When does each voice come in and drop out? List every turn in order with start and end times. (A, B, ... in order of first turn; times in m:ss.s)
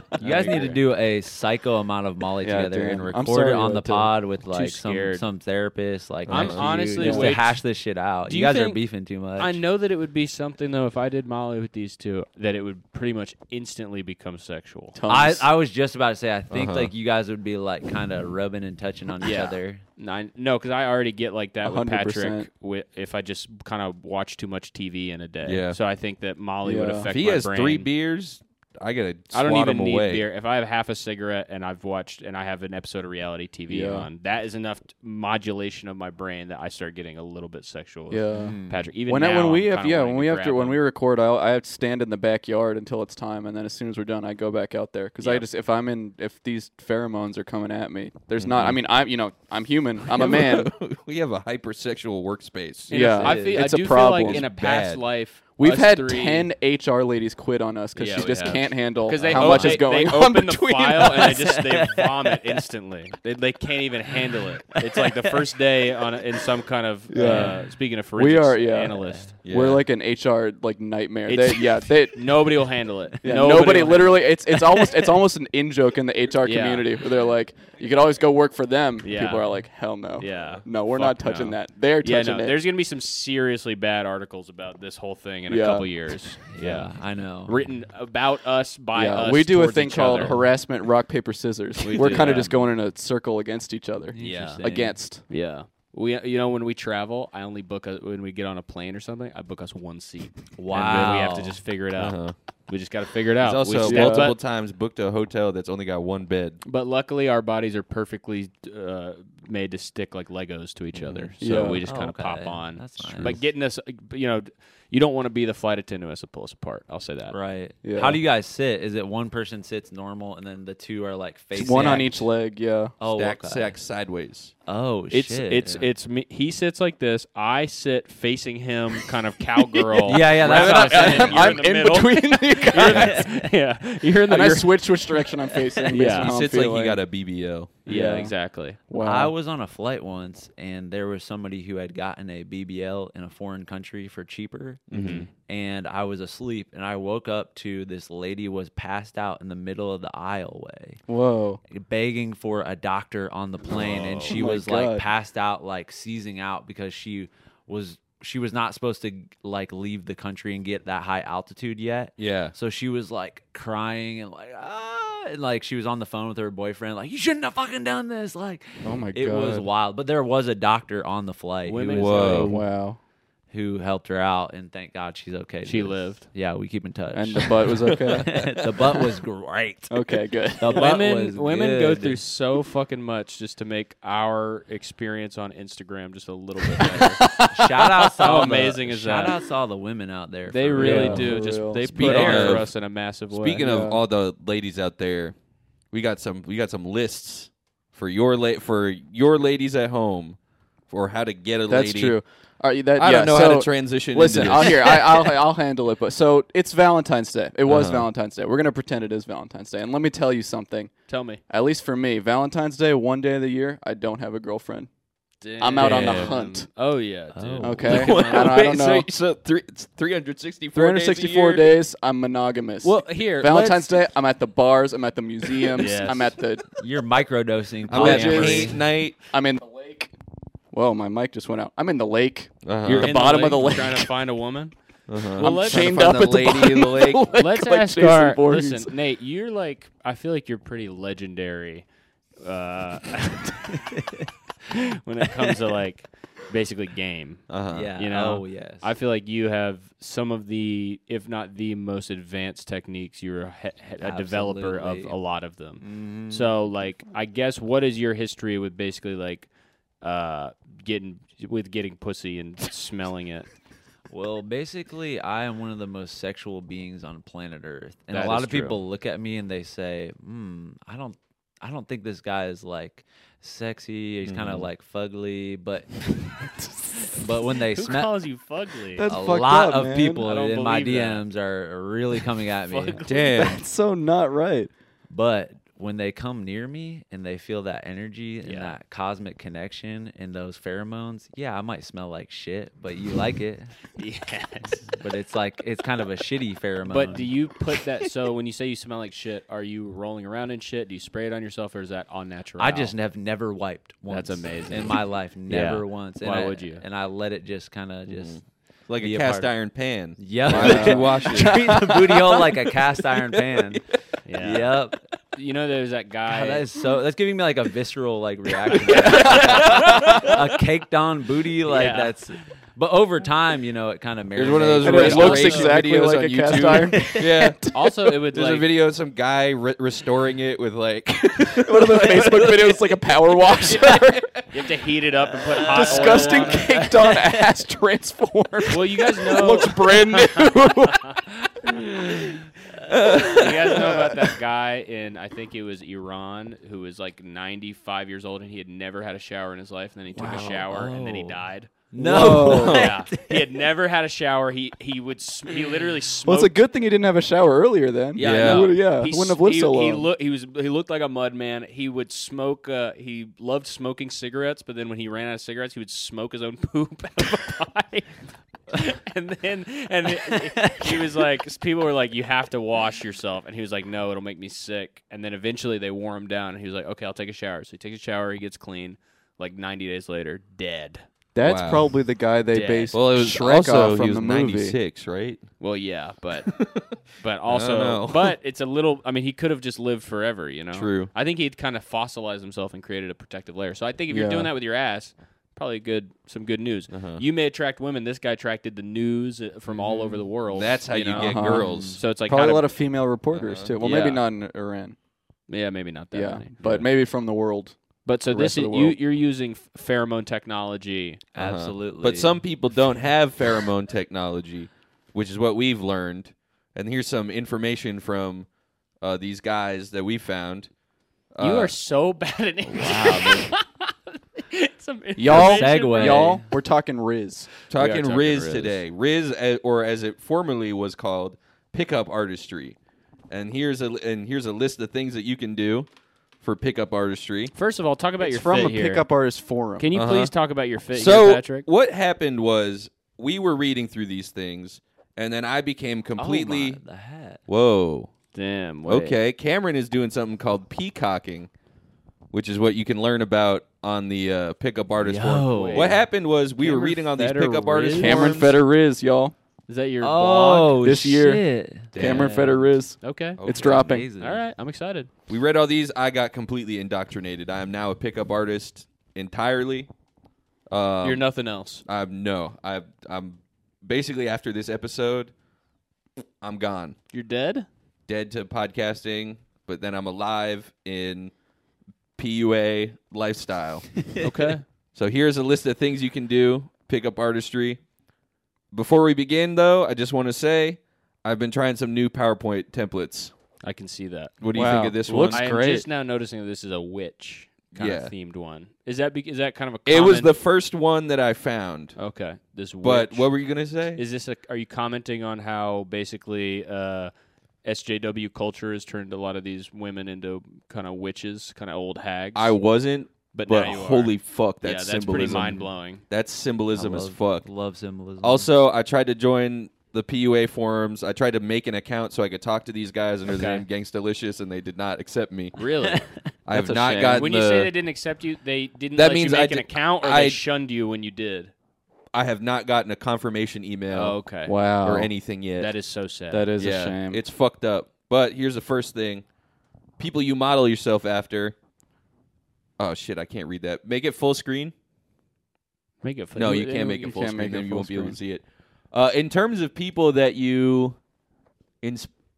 0:00.2-0:09.6 A
0:00.2-0:00.8 B
0:02.4-0:04.1 C
0:04.5-0:05.2 B
0:06.3-0:06.7 D
0:06.3-0:07.7 B
0:07.0-0:07.4 C
0:08.3-0:08.8 B
0:09.4-0:15.0 B
0:14.9-0:15.5 C
0:15.1-0:19.8 A
0:16.5-0:16.9 D
0:19.2-0:27.9 B
0:21.6-0:22.5 C
0:25.4-0:25.8 D
0:26.6-0:27.1 C
0:27.1-0:30.2 D
0:29.3-0:40.8 B
0:33.7-0:34.1 C
0:38.1-0:38.6 C
0:38.4-0:38.9 A
0:39.1-0:50.7 C
0:45.2-0:45.5 B
0:50.1-0:52.9 D
0:52.9-0:56.5 B
0:52.9-0:54.5 C
0:53.2-0:53.6 A
0:54.2-0:55.0 D
0:55.6-1:01.5 C
0:58.0-1:09.3 B
0:59.2-0:59.8 D
1:01.2-1:02.4 A
1:04.8-1:05.4 A
1:07.1-1:12.5 C
1:07.2-1:07.5 A
1:09.4-1:09.8 D
1:11.3-1:14.4 B
1:13.2-1:22.6 C
1:16.4-1:16.9 B
1:19.0-1:19.6 B
1:20.2-1:30.4 B
1:25.5-1:25.9 C
1:26.5-1:27.6 A
1:29.0-1:35.2 C
1:31.8-1:32.6 A
1:31.8-1:32.6 B
1:34.1-1:35.0 A
1:34.2-1:34.7 B
1:35.3-1:44.4 B
1:40.6-1:41.6 A
1:42.0-1:42.3 D
1:43.4-1:46.6 D
1:43.8-1:44.3 C
1:46.6-1:57.4 B
1:51.4-1:51.8 C
1:51.8-1:53.4 A
1:57.3-2:02.3 A
1:57.8-1:58.2 C
2:01.5-2:02.9 C
2:01.7-2:02.1 D
2:03.0-2:03.8 A
2:03.1-2:04.5 D
2:04.7-2:05.8 A
2:05.1-2:15.0 B
2:10.0-2:13.5 C
2:10.1-2:11.6 A
2:12.9-2:13.3 A
2:14.3-2:17.0 C
2:15.9-2:16.4 B
2:16.0-2:17.8 D
2:17.9-2:18.8 B
2:17.9-2:19.3 C
2:19.0-2:24.8 A
2:24.9-2:25.3 D
2:24.9-2:25.3 B
2:25.4-2:31.0 A
2:31.1-2:31.6 C
2:31.7-2:52.7 A
2:33.7-2:34.4 B
2:34.3-2:35.0 C
2:42.2-2:42.6 D
2:48.8-2:49.7 C
2:51.7-2:52.6 B
2:52.0-2:52.5 D
2:52.3-2:53.0 C
2:53.5-3:02.2 A
2:55.6-2:56.2 B
2:57.1-2:58.7 C
2:57.9-2:58.5 D
2:59.9-3:00.9 C
3:00.7-3:07.2 B
3:06.8-3:07.9 C
3:07.5-3:12.7 A
3:08.2-3:09.4 B
3:10.5-3:13.6 B
3:10.8-3:12.3 C
3:12.0-3:12.7 D
3:13.3-3:15.4 D
3:13.6-3:14.0 C
3:15.9-3:20.4 D
3:20.9-3:22.2 D
3:21.7-3:30.9 C
3:23.0-3:25.3 D
3:27.7-3:28.1 D
3:31.1-3:31.4 B
3:31.5-3:34.9 C
3:35.4-3:38.5 B
3:35.6-3:36.7 C
3:35.8-3:36.3 A
3:35.8-3:36.3 D
3:37.3-3:38.1 A
3:37.6-3:39.1 C
3:37.9-3:41.8 D
3:40.7-3:46.7 C
3:42.8-3:44.1 B
3:45.8-3:46.4 B
3:46.8-3:48.8 A
3:47.9-3:49.2 D
3:47.9-3:50.1 C
3:50.7-3:54.1 C
3:52.6-3:53.2 D
3:52.9-3:56.1 B
3:55.1-3:57.3 D
3:55.4-3:58.9 C
3:57.3-4:01.9 B
4:02.4-4:03.7 B
4:03.7-4:04.3 A
4:04.7-4:19.5 B
4:07.5-4:07.9 D
4:07.7-4:08.9 A
4:14.0-4:15.2 A
4:15.8-4:16.6 A
4:20.0-4:23.5 B
4:24.1-4:35.9 A
4:28.1-4:28.8 B
4:34.2-4:34.7 D
4:36.4-4:37.1 C
4:37.2-4:38.1 A
4:37.7-4:39.1 B
4:39.0-4:40.3 C
4:39.1-4:43.0 A
4:40.2-4:41.2 B
4:42.7-4:43.5 B
4:43.0-4:43.6 D
4:43.3-4:44.7 C
4:45.1-4:53.8 A
4:48.4-4:48.8 B
4:54.0-4:54.9 B
4:54.9-4:57.3 A
4:56.9-5:02.9 B
5:02.6-5:08.4 A
5:04.1-5:06.8 B
5:08.1-5:11.6 D
5:09.0-5:09.6 A
5:10.2-5:13.8 A
5:10.5-5:12.3 C
5:14.3-5:14.8 B
5:14.4-5:15.0 A
5:15.4-5:16.6 B
5:16.3-5:25.7 A
5:19.1-5:20.2 C
5:19.1-5:20.0 B
5:20.0-5:20.3 D
5:21.7-5:22.2 B
5:24.4-5:27.7 D
5:24.8-5:27.9 C
5:25.2-5:25.7 B
5:26.7-5:27.2 A
5:27.7-5:28.7 B
5:28.3-5:32.9 D
5:31.5-5:34.3 C
5:33.7-5:34.4 D
5:34.5-5:36.9 B
5:35.4-5:37.4 A
5:35.7-5:41.2 C
5:38.7-5:41.2 B
5:42.9-5:44.1 D
5:43.0-5:56.6 B
5:50.2-5:53.4 A
5:52.0-5:52.9 C
5:52.3-5:52.9 D
5:56.2-6:00.1 C
5:58.2-6:08.2 B
5:58.2-5:58.7 D
6:08.7-6:21.0 B
6:10.3-6:11.1 A
6:21.4-6:24.8 C
6:21.4-6:21.9 D
6:22.5-6:23.0 B
6:22.9-6:25.5 D
6:25.6-6:26.6 B
6:26.5-6:27.0 D
6:27.2-6:42.7 B
6:27.5-6:28.3 D
6:30.7-6:31.1 D
6:34.1-6:34.5 C
6:36.9-6:37.2 D
6:40.5-6:42.0 D
6:41.2-6:45.0 C
6:41.5-6:42.0 A
6:43.3-6:43.8 D
6:43.8-6:44.2 B
6:45.5-6:46.9 B
6:46.1-6:47.8 C
6:48.1-6:51.3 B
6:48.3-6:49.0 C
6:51.4-6:52.4 A
6:51.4-6:58.5 D
6:59.0-7:00.7 D
7:01.3-7:01.7 D
7:01.4-7:06.4 B
7:02.8-7:03.4 C
7:05.2-7:08.8 C
7:05.3-7:06.5 A
7:07.7-7:12.8 D
7:07.9-7:08.7 B
7:13.3-7:15.9 D
7:16.4-7:17.5 D
7:17.5-7:19.1 B
7:18.2-7:19.9 C
7:19.8-7:21.7 B
7:19.9-7:20.3 D
7:20.9-7:26.8 D
7:26.2-7:27.4 A
7:27.5-7:28.1 D
7:28.3-7:29.2 B
7:28.9-7:31.5 D
7:32.3-7:38.6 D
7:35.0-7:36.0 A
7:35.5-7:36.0 B
7:36.6-7:38.4 B
7:38.0-7:39.3 C
7:39.7-7:40.8 B
7:40.0-7:42.5 A
7:40.8-7:44.1 C
7:41.9-7:42.4 D
7:42.1-7:42.4 B
7:43.0-7:43.4 B
7:43.4-7:43.9 D
7:43.5-7:44.4 A
7:44.2-7:45.1 B
7:45.3-7:49.9 D
7:50.7-7:51.2 D
7:51.0-7:51.8 B
7:51.9-7:55.3 D
7:56.4-7:57.0 D
7:57.1-7:57.7 B
7:58.1-8:01.3 D
8:02.2-8:04.2 D
8:04.2-8:04.6 B
8:04.9-8:07.8 D
8:08.7-8:13.3 D
8:13.6-8:14.4 B
8:14.4-8:15.4 D
8:14.5-8:15.9 C
8:15.3-8:20.3 B
8:17.8-8:18.1 D
8:19.9-8:22.0 D
8:22.0-8:23.3 B
8:22.8-8:24.0 D
8:24.0-8:27.1 B
8:27.6-8:32.5 B
8:32.4-8:37.5 D
8:33.3-8:36.0 B
8:35.2-8:35.7 A
8:36.8-8:38.5 A
8:38.2-8:45.6 D
8:43.3-8:43.6 B
8:45.6-8:46.1 B
8:45.9-8:46.2 A
8:46.5-8:47.7 D
8:46.5-8:47.3 C
8:47.1-8:51.5 B
8:49.0-8:50.4 D
8:52.1-8:54.2 D
8:53.9-8:54.6 B
8:54.5-8:55.1 C
8:54.8-8:55.7 D
8:55.6-8:56.5 B
8:56.3-8:57.2 C
8:56.6-8:59.2 D
9:00.0-9:01.6 D
9:02.8-9:04.7 D
9:06.0-9:07.2 B
9:06.4-9:11.0 D
9:06.9-9:08.2 C
9:11.8-9:12.1 D